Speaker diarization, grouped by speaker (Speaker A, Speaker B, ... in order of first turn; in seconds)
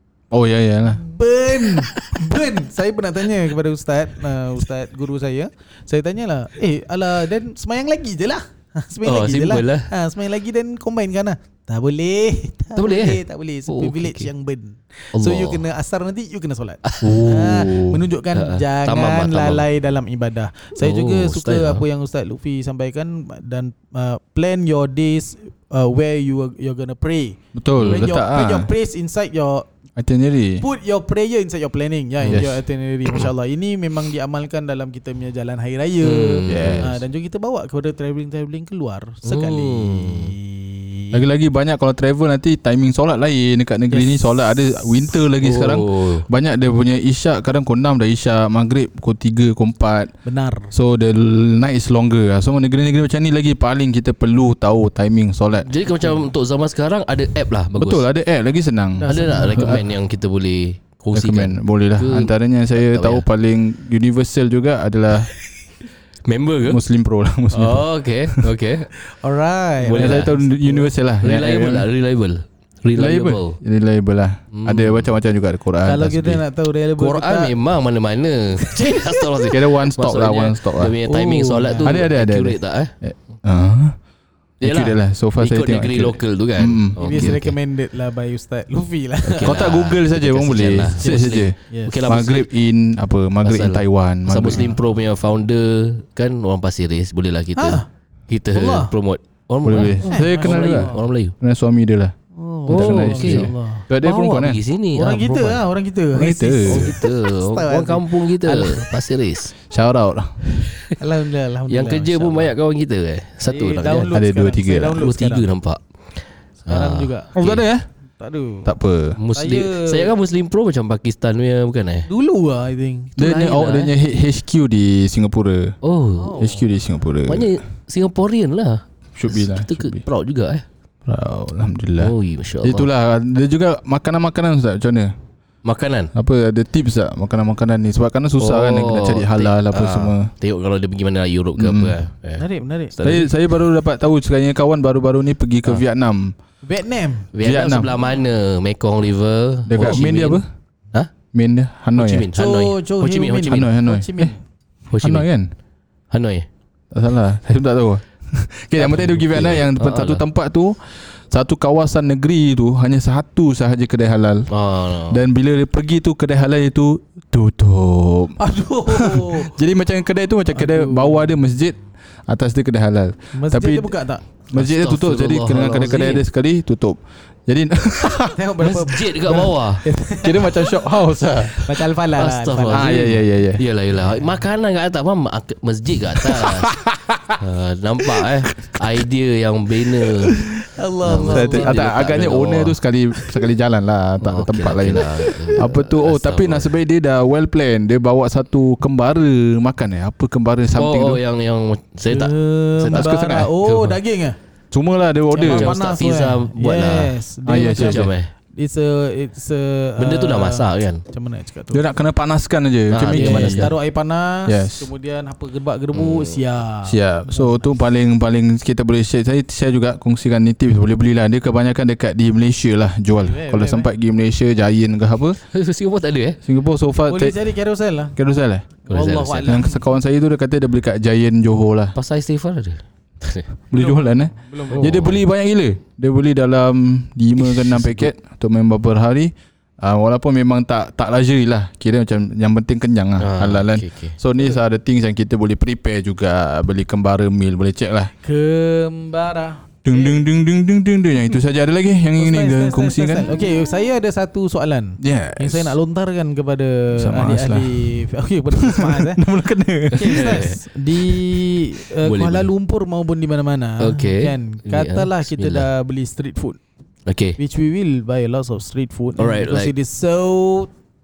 Speaker A: 0.3-1.0, 17.0-18.0, 27.6-28.7, 30.0-30.6, 32.2-32.5, 36.5-37.0, 41.1-50.1, 50.7-55.7, 57.8-59.8, 61.1-65.3, 66.7-68.5, 70.0-71.9, 73.0-76.4, 79.5-81.0, 81.8-84.0, 84.6-87.4, 89.4-94.7, 99.6-102.1, 102.7-104.6, 106.1-107.0, 109.7-110.3, 114.1-115.0, 117.3-117.9, 118.7-119.2, 123.2-125.8, 126.4-127.6, 129.2-130.0, 131.1-135.1, 136.2-140.3, 141.6-142.0, 143.0-146.3, 147.4-147.9, 149.7-150.4, 151.3-152.3, 153.5-154.3, 155.0-155.5, 156.9-164.4, 165.1-168.4, 168.9-173.9, 174.5-178.3, 180.2-181.5, 182.7-183.6, 186.2-187.4, 190.2-190.6, 191.1-201.2, 202.9-203.5, 204.7-205.7, 207.5-208.2, 211.7-213.7, 214.5-214.9, 216.9-225.4, 226.4-227.4, 228.2-228.7, 229.5-231.9, 233.7-248.1, 249.8-253.3, 255.0-255.8, 257.0-257.9, 258.6-260.4
Speaker B: 0.9-29.7, 30.6-41.2, 43.9-45.0, 50.2-50.7, 59.0-59.8, 69.0-70.9, 75.8-77.5, 78.6-79.3, 81.0-82.0, 87.0-89.6, 91.0-92.0, 94.5-94.8, 97.6-97.9, 98.5-98.9, 100.1-101.1, 102.3-103.8, 105.0-108.9, 111.0-112.5, 113.5-115.5, 116.7-117.3, 118.2-118.7, 119.3-120.1, 122.1-123.9, 126.2-126.7, 142.4-143.2, 146.6-147.3, 152.3-154.4, 168.4-169.5, 170.5-171.3, 173.3-174.2, 178.2-180.9, 181.6-183.2, 190.6-191.8, 202.1-204.4, 205.3-211.8, 213.2-217.7, 223.2-223.9, 227.1-228.2, 228.9-229.8, 233.7-235.1, 248.2-250.3, 252.2-259.2, 259.9-266.6, 267.4-270.7
Speaker C: 9.0-9.9, 12.8-14.3, 15.2-15.6, 16.9-17.2, 18.3-19.6, 20.8-21.8, 27.8-28.1, 36.0-36.9, 39.2-40.3, 45.4-46.3, 55.6-58.0, 59.1-63.3, 66.3-66.8, 67.5-68.9, 69.8-70.3, 71.2-73.6, 74.5-75.1, 77.0-82.9, 84.6-87.5, 89.2-92.5, 93.4-101.3, 102.7-105.6, 106.7-109.5, 110.6-111.0, 111.7-114.1, 115.0-115.8, 116.7-117.6, 119.2-122.1, 123.5-123.9, 125.8-126.5, 127.3-130.7, 132.0-132.9, 135.7-136.1, 138.4-143.3, 147.3-150.4, 152.0-153.7, 154.9-155.3, 156.1-156.5, 158.8-160.2, 164.5-165.2, 174.5-176.2, 178.6-179.9, 181.4-186.7, 187.4-190.4, 191.0-192.8, 194.2-196.8, 200.8-204.0, 205.5-207.2, 207.8-208.3, 210.0-211.0, 212.9-213.7, 215.9-216.4, 225.5-226.4, 228.9-229.6, 231.9-233.5, 234.7-235.2, 237.4-238.1, 243.2-244.2, 260.0-260.6, 262.1-262.5, 263.8-265.7, 267.1-267.4, 269.2-269.7